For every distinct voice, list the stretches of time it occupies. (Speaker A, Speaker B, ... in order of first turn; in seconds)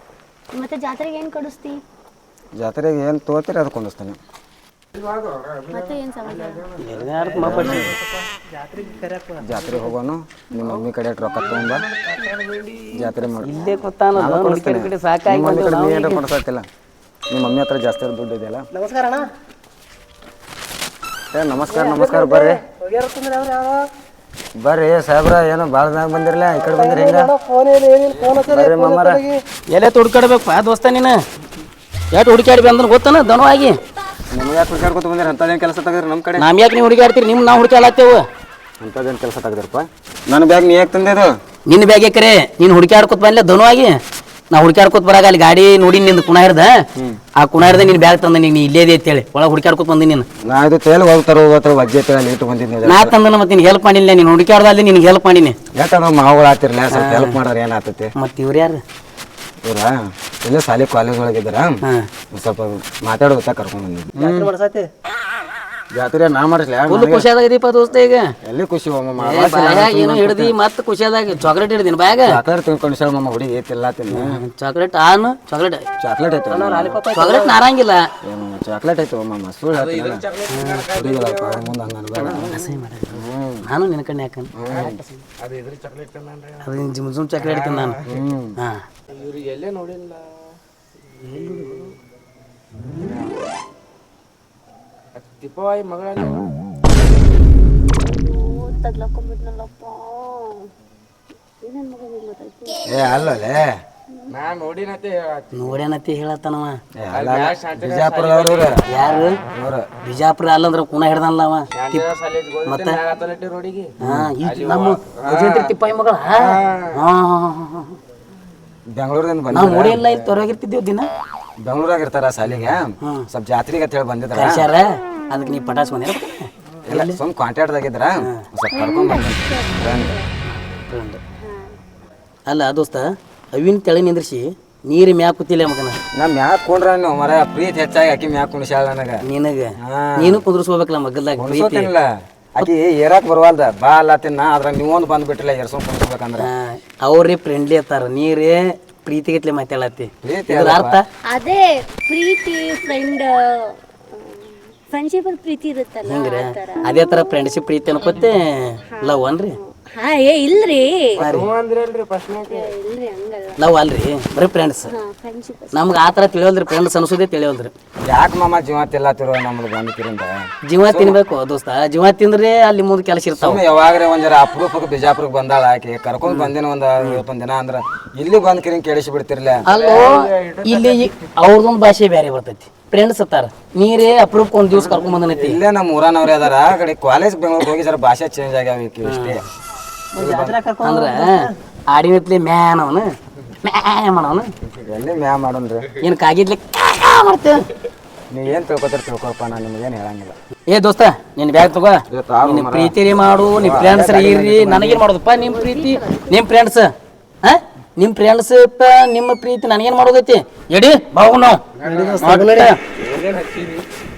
Speaker A: 0.5-1.8, 5.7-6.7, 98.0-100.7, 101.6-103.2, 128.7-130.2, 131.4-131.7, 151.3-158.2, 158.9-161.3, 162.3-163.6, 164.8-165.9, 205.3-206.4
Speaker B: 2.6-4.2, 7.3-8.0, 9.4-11.9, 12.9-16.7, 17.3-18.7, 21.3-22.6, 24.6-27.3, 28.4-29.2, 34.3-36.5, 38.8-41.3, 50.4-53.1, 55.7-58.1, 59.6-61.8, 62.3-64.5, 65.9-67.3, 68.4-70.5, 72.3-74.4, 76.0-77.0, 78.2-80.2, 80.9-82.5, 83.1-83.7, 84.6-84.9, 88.1-88.6, 102.9-103.7, 107.0-108.8, 109.5-109.9, 114.0-114.3, 118.9-120.2, 121.6-124.7, 126.9-130.2, 136.2-139.2, 139.8-140.4, 141.4-146.5, 150.2-151.0, 168.1-171.2, 173.4-179.7, 184.7-189.4, 190.2-190.6, 194.7-196.0, 198.3-200.3, 202.1-205.1
Speaker C: 5.0-7.0, 11.4-13.0, 79.7-81.7, 85.4-86.7, 87.4-88.2, 89.1-90.2, 93.0-93.3, 95.2-96.5, 104.3-105.5, 107.1-108.8, 111.7-115.7, 116.4-116.9, 161.2-162.7, 179.7-181.0, 211.8-212.4, 213.0-213.8
Speaker D: 6.8-8.0, 13.4-16.2, 29.7-31.2, 32.1-33.8, 36.4-38.2, 41.7-44.0, 44.5-46.9, 47.4-50.3, 52.8-55.6, 56.9-57.4, 58.2-58.8, 66.9-68.3, 69.2-72.4, 74.1-75.9, 77.1-78.0, 80.5-80.9, 82.2-85.2, 86.6-88.0, 91.2-91.9, 105.5-106.8, 108.9-109.4, 110.0-112.1, 112.7-113.0, 114.0-118.0, 119.5-121.1, 124.3-127.2, 130.5-131.2, 132.5-136.0, 139.2-141.9, 146.4-151.1, 156.1-159.6, 161.2-161.5, 163.6-164.9, 165.7-167.7, 170.7-173.6, 176.3-177.2, 179.7-185.6, 189.1-189.4, 190.8-193.1, 193.6-194.5, 196.0-197.7, 200.7-206.9, 207.4-211.7, 212.2-212.8
Speaker E: 8.5-9.9, 18.7-19.2, 21.7-23.8, 26.6-29.4, 64.2-64.9, 76.5-77.6, 190.1-191.5, 211.9-212.7